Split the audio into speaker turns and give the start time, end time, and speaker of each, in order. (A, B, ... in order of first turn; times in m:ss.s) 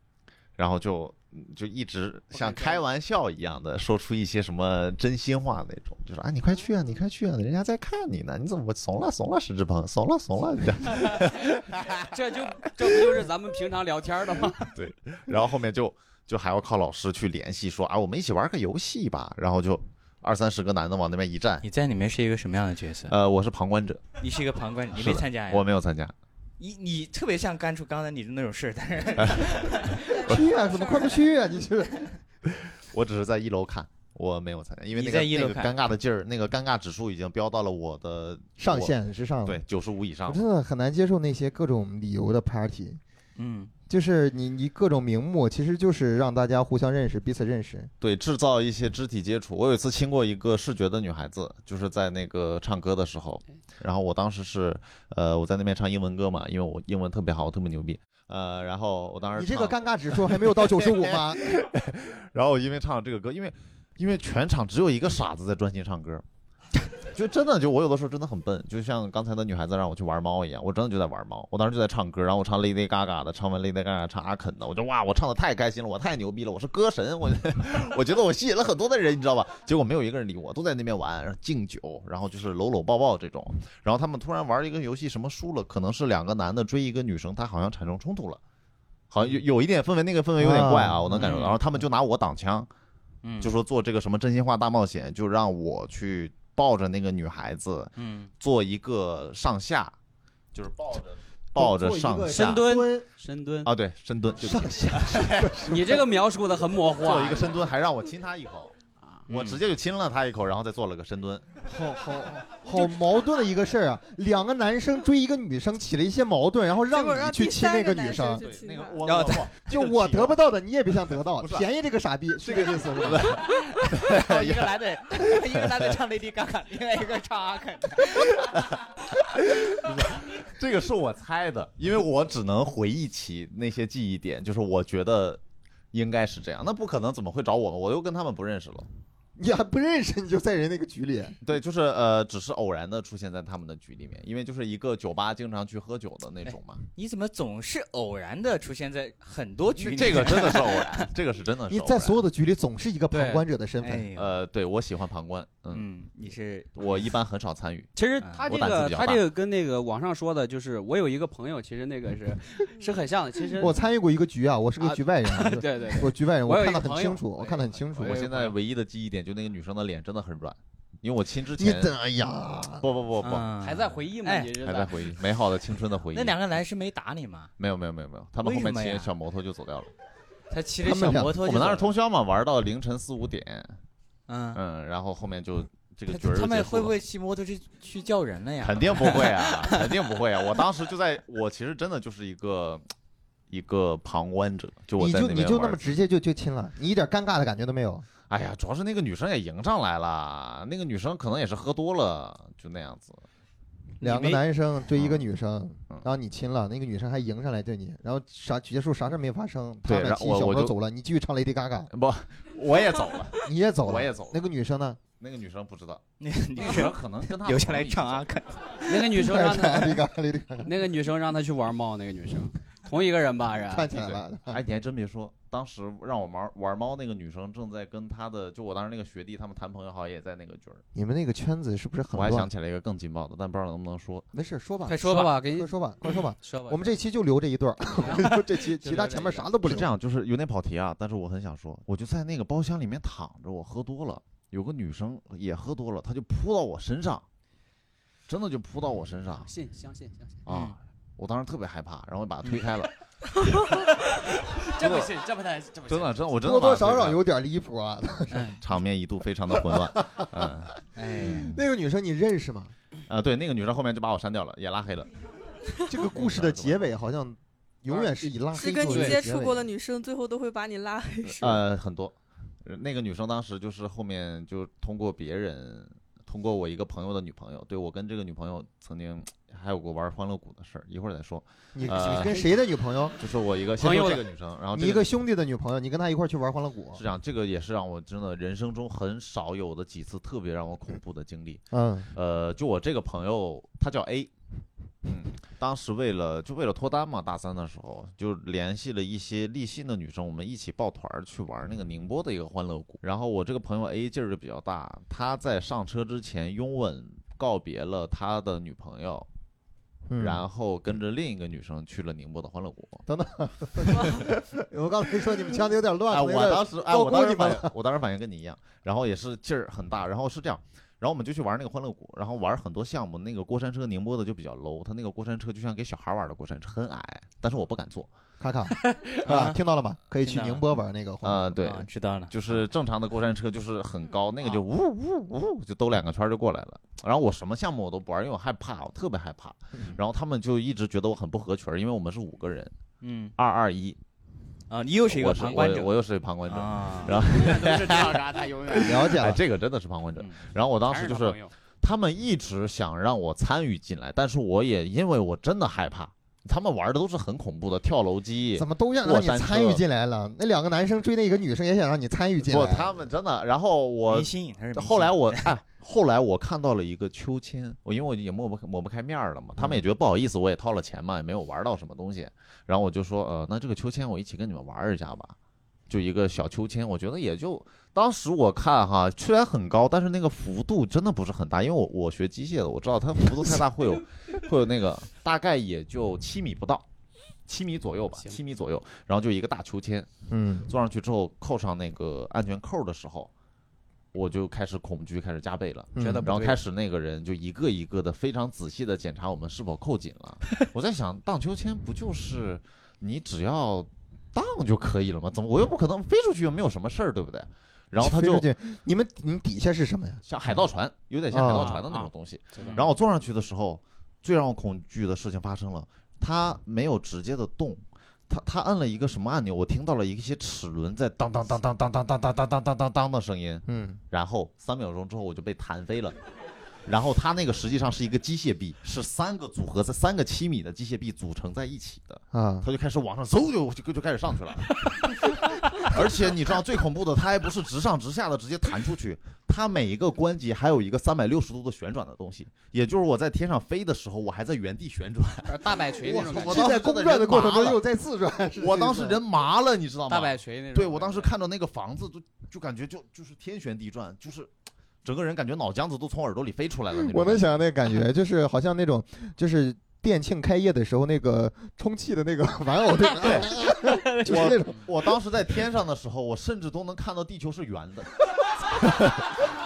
0:00.6-0:12.2 A
0:02.3-0:02.8 B
0:12.0-0:14.6 B
0:14.7-0:21.6 A
0:21.6-0:23.1 C
0:23.1-0:24.0 A
0:24.2-0:25.7 C
0:24.9-0:26.1 A
0:26.6-0:30.0 C
0:29.2-0:29.6 A
0:30.0-0:31.3 D
0:30.2-0:32.1 E
0:32.4-0:38.9 A
0:34.9-0:35.7 C
0:38.6-0:39.6 E
0:39.4-0:40.4 A
0:40.2-0:43.0 E
0:43.4-0:43.7 C
0:43.9-0:47.9 E
0:48.0-1:06.2 A
0:59.3-1:01.5 E
1:07.1-1:28.4 A
1:29.1-1:32.7 A
1:30.4-1:31.3 E
1:31.2-1:31.6 C
1:33.2-1:33.5 C
1:33.4-1:39.9 A
1:38.0-1:38.3 C
1:40.5-1:42.6 A
1:41.5-1:43.0 E
1:42.3-1:43.7 B
1:43.6-1:46.0 A
1:45.2-1:45.8 E
1:45.6-1:47.6 B
1:47.0-1:48.7 A
1:49.3-1:51.5 A
1:49.3-1:49.6 C
1:51.7-1:58.4 E
1:56.9-1:59.0 D
1:58.4-2:00.4 A
1:59.0-1:59.5 C
1:59.6-2:03.4 E
2:01.4-2:01.6 A
2:02.4-2:05.7 A
2:03.5-2:08.4 C
2:08.4-2:15.4 A
2:15.9-2:18.9 A
2:19.4-2:21.4 E
2:21.4-2:26.8 A
2:26.5-2:31.1 C
2:29.8-2:32.2 A
2:31.7-2:34.1 E
2:33.1-2:33.4 B
2:33.8-2:34.4 C
2:34.1-2:35.9 A
2:35.7-2:37.0 C
2:36.8-2:37.9 A
2:38.0-2:43.8 B
2:38.4-2:39.2 A
2:43.6-2:48.3 E
2:44.8-2:48.6 B
2:48.0-2:51.9 A
2:51.6-2:52.9 E
2:52.8-2:53.5 A
2:53.2-2:54.6 C
2:53.6-2:55.1 B
2:54.6-2:56.4 A
2:56.1-2:57.5 C
2:57.6-2:59.9 A
2:58.4-2:59.1 C
3:00.5-3:01.9 C
3:00.8-3:01.4 E
3:01.2-3:03.8 A
3:04.3-3:04.6 C
3:04.5-3:07.0 A
3:06.1-3:09.9 C
3:08.6-3:12.8 A
3:13.5-3:16.0 A
3:15.0-3:18.0 E
3:18.3-3:23.2 A
3:24.0-3:24.4 C
3:24.0-3:31.9 E
3:24.9-3:25.2 A
3:29.8-3:30.7 A
3:31.9-3:34.4 A
3:33.4-3:35.0 E
3:35.2-3:36.0 A
3:36.2-3:39.1 C
3:36.6-3:38.3 A
3:38.9-3:40.0 B
3:39.1-3:40.7 E
3:40.6-3:43.9 B
3:43.6-3:44.6 E
3:43.9-3:50.8 A
3:50.9-3:52.5 E
3:52.1-3:54.3 A
3:54.3-3:59.9 E
3:54.8-3:57.0 B
3:58.0-3:59.5 B
3:59.6-4:07.2 A
4:08.3-4:09.5 A
4:09.4-4:10.4 B
4:10.4-4:13.0 A
4:10.5-4:10.8 C
4:13.7-4:16.3 B
4:14.8-4:15.1 A
4:15.9-4:17.2 A
4:16.4-4:18.6 E
4:18.3-4:18.6 C
4:18.6-4:21.6 A
4:19.5-4:20.6 E
4:21.0-4:21.5 C
4:21.2-4:22.7 E
4:23.1-4:25.1 A
4:25.9-4:29.7 E
4:26.0-4:26.9 A
4:27.9-4:29.2 B
4:28.5-4:31.5 D
4:31.3-4:42.5 A
4:41.7-4:43.2 E
4:43.2-4:45.1 A
4:43.8-4:44.2 B
4:44.7-4:47.0 E
4:46.9-4:51.6 A
4:51.7-4:52.1 E
4:52.1-4:54.3 A
4:55.0-5:09.3 A
5:10.1-5:10.4 E
5:10.2-5:13.0 A
5:13.1-5:17.7 E
5:13.8-5:14.3 A
5:16.1-5:28.1 A
5:28.4-5:31.6 E
5:29.1-5:29.6 C
5:30.2-5:30.6 C
5:31.2-5:42.7 A
5:31.6-5:32.6 C
5:43.0-5:43.3 C
5:43.4-5:44.0 A
5:44.7-5:45.9 C
5:45.1-5:59.8 A
5:46.4-5:47.2 C
5:47.1-5:49.2 B
5:48.8-5:49.4 E
5:50.8-5:51.5 B
5:58.6-6:03.0 E
6:02.4-6:15.4 A
6:04.1-6:05.6 C
6:15.9-6:26.8 A
6:27.5-6:30.1 A
6:30.3-6:30.7 E
6:30.7-6:33.3 A
6:34.1-6:48.4 A
6:35.9-6:36.3 E
6:36.0-6:36.6 B
6:48.0-6:50.6 E
6:50.2-7:06.2 A
6:51.3-6:51.8 E
6:51.5-6:52.9 B
6:52.6-6:52.9 C
7:03.7-7:04.0 E
7:06.8-7:27.8 A
7:12.3-7:12.7 E
7:25.5-7:26.7 B
7:26.0-7:29.2 E
7:28.6-7:34.5 A
7:30.1-7:31.3 B
7:35.0-7:37.5 A
7:36.9-7:44.8 E
7:43.2-7:43.5 A
7:44.2-7:48.2 A
7:48.7-7:49.3 A